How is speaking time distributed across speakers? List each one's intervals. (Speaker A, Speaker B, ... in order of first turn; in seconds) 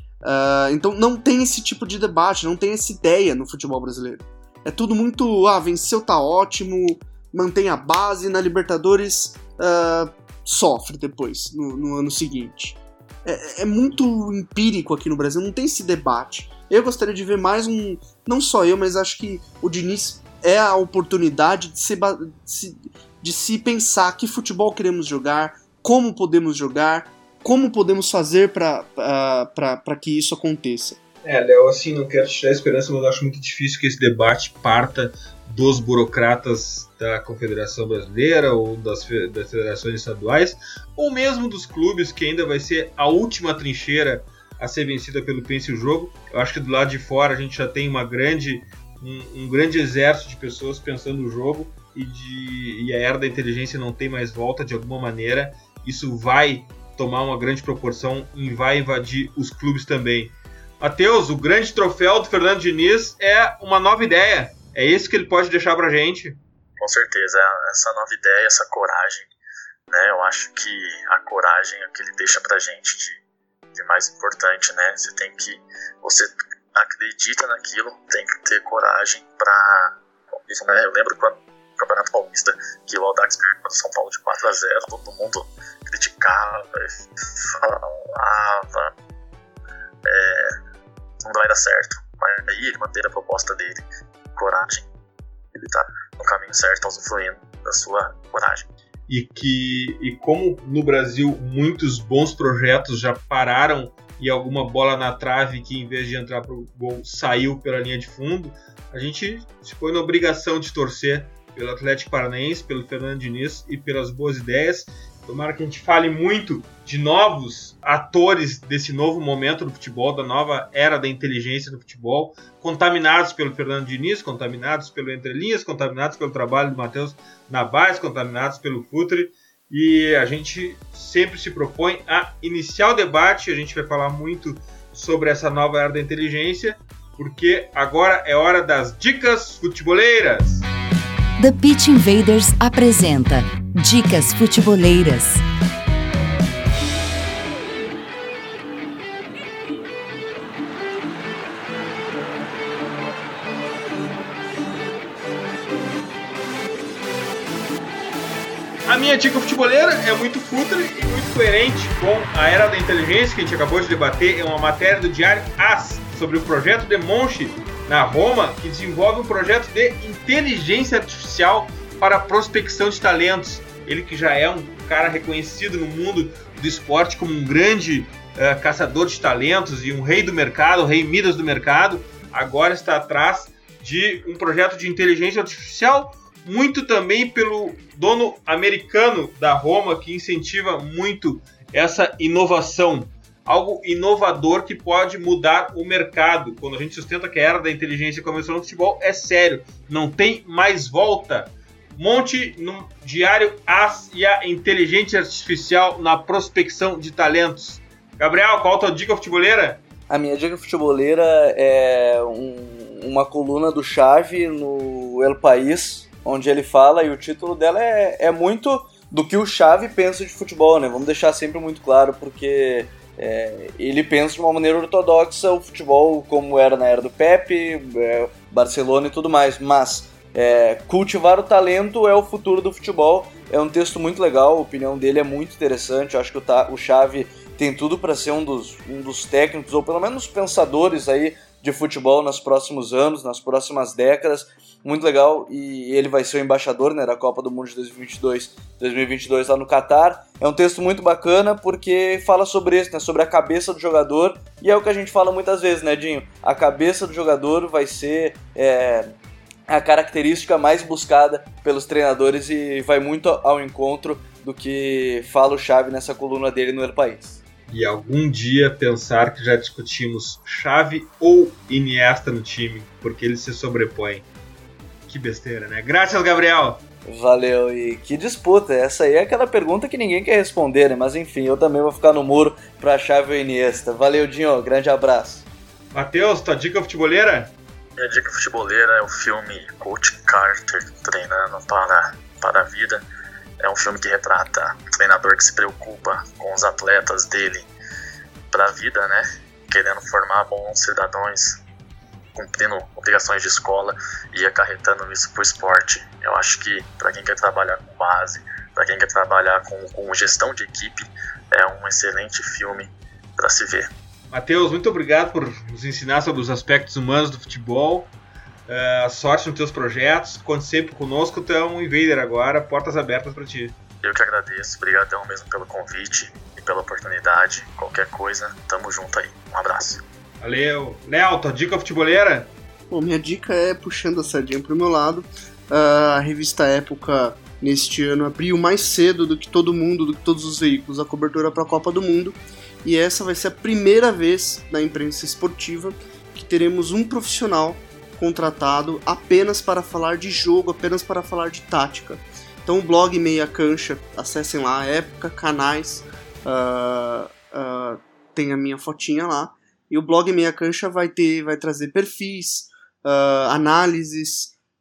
Speaker A: 0.2-31.0, 332.9-364.5
Speaker B: 31.2-66.4, 99.1-140.7, 158.8-209.8, 267.7-274.2, 275.1-276.8, 285.9-287.5, 314.3-318.1, 318.7-323.7, 330.4-332.5
Speaker C: 66.8-69.3, 69.9-73.2, 73.7-88.9, 90.0-90.5, 91.2-93.8, 94.3-94.8, 95.5-98.7, 288.0-293.0, 293.6-297.7, 298.5-301.6, 302.3-313.9, 324.0-330.0
Speaker D: 141.4-145.4
Speaker E: 210.1-259.1, 259.7-267.4, 277.1-285.4